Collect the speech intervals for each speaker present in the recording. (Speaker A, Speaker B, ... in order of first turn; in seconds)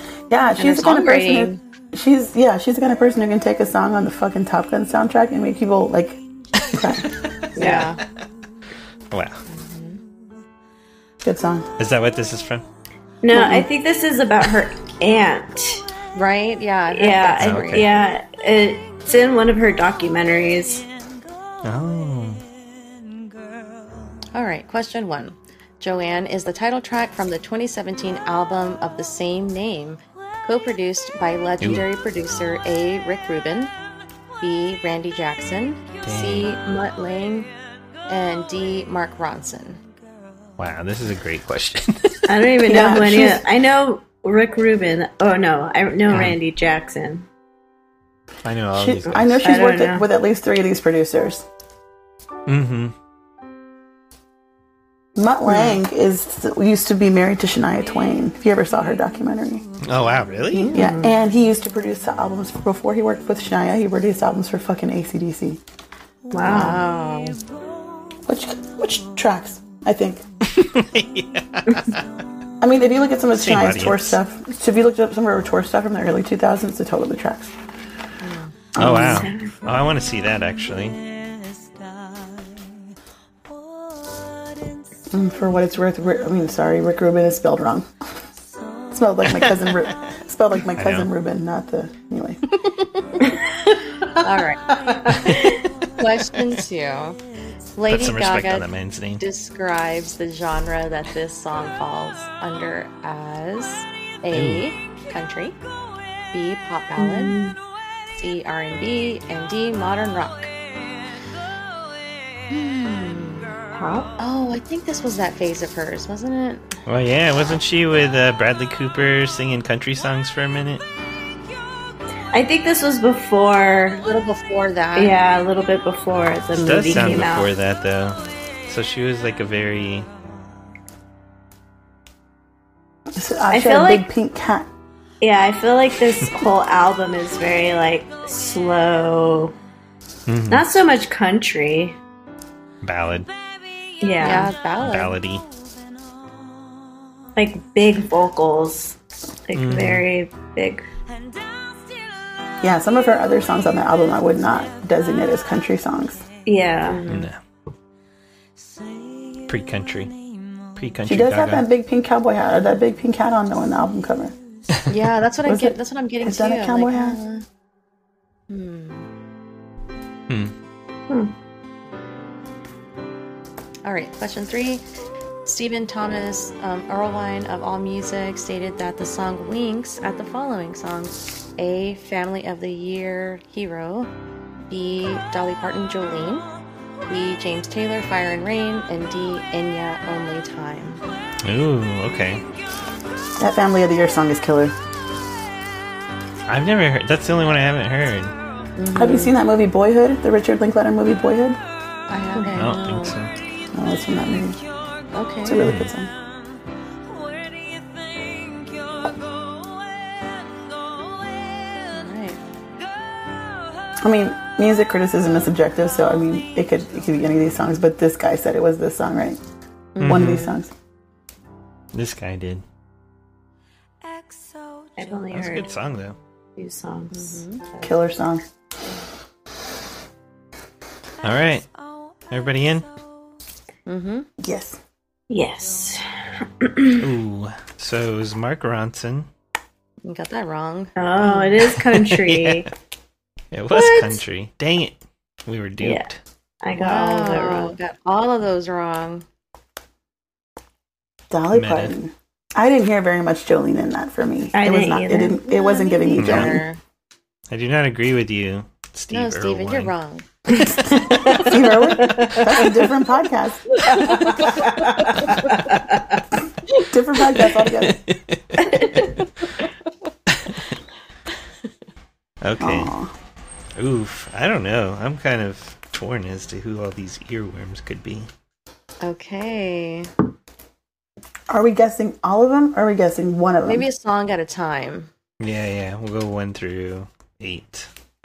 Speaker A: 0.3-6.2, 6.7-7.1, 11.2-11.7, 13.3-13.7, 42.6-43.4, 48.7-51.5, 55.1-59.7, 60.5-65.6, 66.5-66.8, 68.3-70.2, 72.6-77.5, 78.8-79.3, 85.1-87.9, 88.9-92.4, 133.1-134.7, 152.6-156.3, 161.1-164.3, 165.4-167.2, 193.4-194.7, 198.9-201.6, 203.7-204.6, 205.4-206.1, 214.0-219.4, 220.0-220.7, 227.8-228.4, 234.4-234.8, 251.3-256.6, 260.8-264.3, 266.7-268.0, 272.6-273.1, 281.5-283.9
Speaker B: 0.6-1.6, 7.6-8.0, 9.5-10.0, 16.1-17.9, 24.3-33.7, 34.4-37.5, 38.1-39.8, 66.5-67.4, 78.2-78.5, 92.7-93.0, 94.2-94.7, 96.0-97.2, 97.8-98.7, 99.2-105.6, 106.3-107.4, 108.1-110.5, 112.5-113.6, 114.2-116.8, 123.9-125.2, 144.2-145.1, 156.9-157.3, 164.9-167.4, 168.5-169.1, 173.8-174.8, 175.5-184.1, 184.7-186.5, 187.1-191.0, 198.8-199.3, 202.1-203.1, 205.1-205.6, 211.9-212.4, 219.9-220.6, 227.1-227.6, 233.9-234.3, 240.0-241.6, 246.8-249.2, 255.4-256.8, 259.1-260.2, 279.0-280.1, 283.7-285.1
Speaker C: 6.6-7.5, 9.1-9.4, 11.8-12.7, 17.4-18.0, 21.6-22.4, 31.6-31.9, 36.0-36.5, 40.6-42.4, 46.1-46.4, 48.4-49.5, 52.5-52.9, 59.8-60.7, 70.5-72.0, 73.4-74.2, 78.8-81.0, 89.3-89.6, 90.8-91.1, 95.3-95.6, 97.9-99.2, 104.3-104.6, 116.9-120.8, 126.6-130.1, 140.3-140.7, 142.8-143.3, 144.8-145.4, 149.6-150.1, 157.1-157.4, 159.5-160.1, 160.8-161.7, 170.3-170.5, 191.4-192.4, 196.5-198.3, 202.6-203.3, 205.6-205.9, 220.0-220.5, 221.9-222.6, 225.3-226.2, 231.2-231.7, 232.3-232.9, 237.0-239.3, 242.0-242.7, 243.5-246.2, 251.5-251.9, 256.2-256.6, 257.5-259.9, 267.4-269.2, 270.3-270.7, 272.4-272.9, 273.8-278.3, 285.4-287.9
Speaker D: 7.6-7.9, 13.2-15.8, 16.9-20.9, 42.3-47.3, 49.1-50.1, 55.5-55.8, 60.5-61.1, 66.3-66.8, 78.9-79.5, 94.7-95.6, 107.0-107.6, 113.7-114.1, 122.3-124.0, 125.0-127.5, 133.5-134.1, 135.2-139.5, 140.5-142.0, 144.0-144.5, 147.3-150.8, 156.5-157.0, 171.1-171.3, 225.0-225.7, 226.6-227.9, 235.3-237.1, 241.0-242.7, 243.7-244.2, 245.8-246.1, 246.6-247.8, 254.5-255.4, 260.6-262.8, 263.9-266.1, 268.6-269.1